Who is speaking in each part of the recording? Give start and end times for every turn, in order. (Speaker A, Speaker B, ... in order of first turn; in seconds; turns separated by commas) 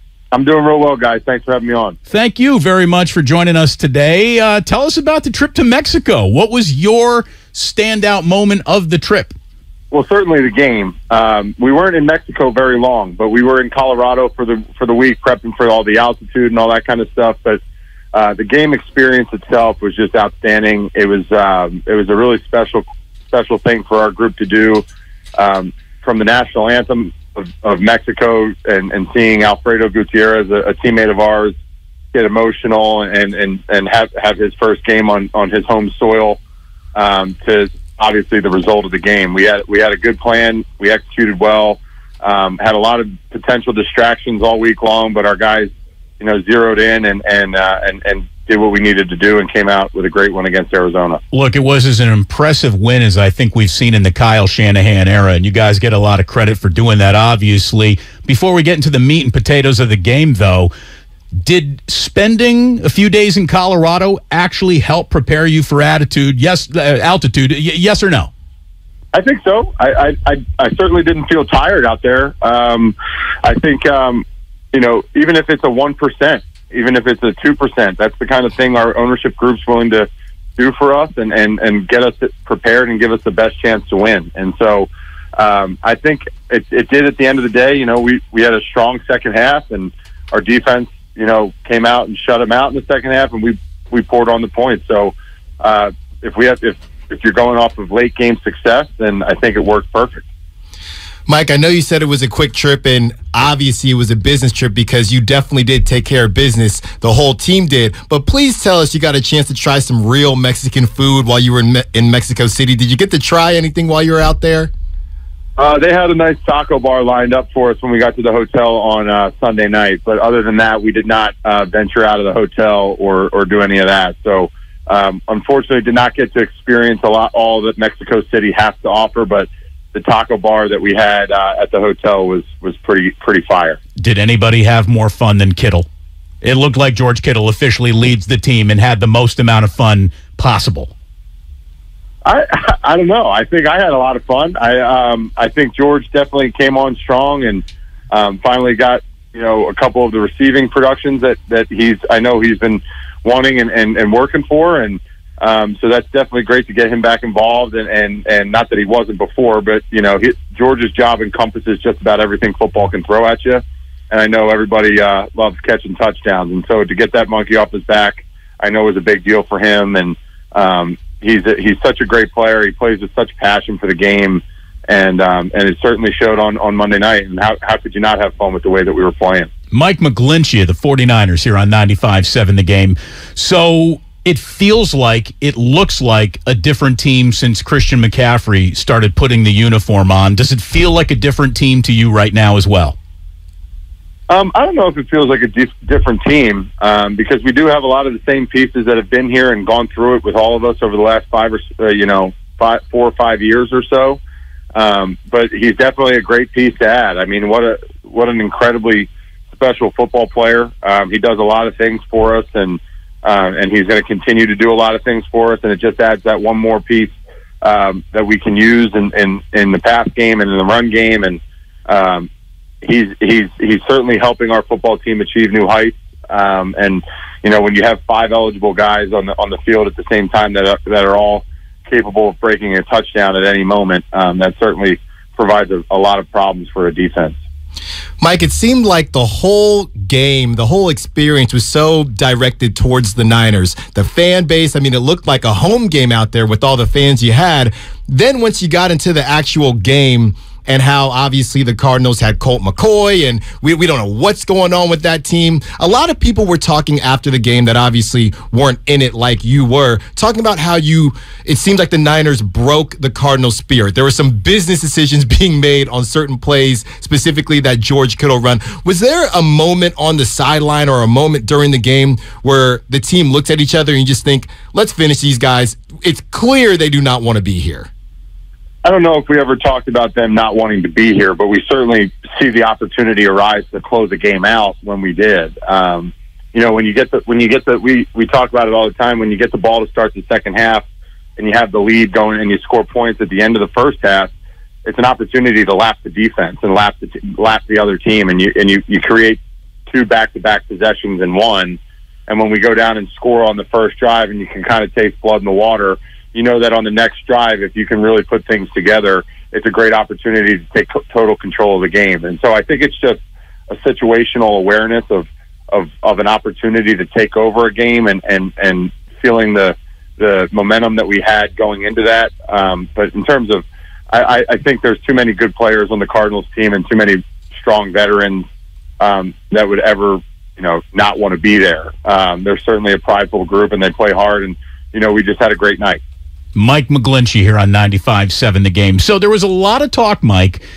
Speaker A: 0.3-2.0, Speaker B: 2.1-9.3, Speaker A: 9.9-17.6, Speaker A: 18.1-24.8, Speaker A: 25.4-31.5, Speaker A: 32.1-36.4, Speaker A: 36.9-51.2, Speaker B: 51.3-60.7, Speaker B: 61.4-68.3, Speaker A: 69.1-100.2, Speaker C: 101.3-114.7, Speaker A: 115.6-133.8, Speaker B: 134.0-135.9, Speaker B: 136.4-140.9, Speaker A: 142.2-179.5, Speaker B: 179.7-192.9, Speaker A: 194.3-204.2, Speaker A: 204.7-222.3, Speaker A: 222.8-237.4, Speaker C: 238.2-277.9, Speaker A: 278.8-290.8, Speaker A: 291.4-294.3, Speaker A: 294.8-328.4, Speaker A: 329.0-336.0, Speaker B: 336.5-340.6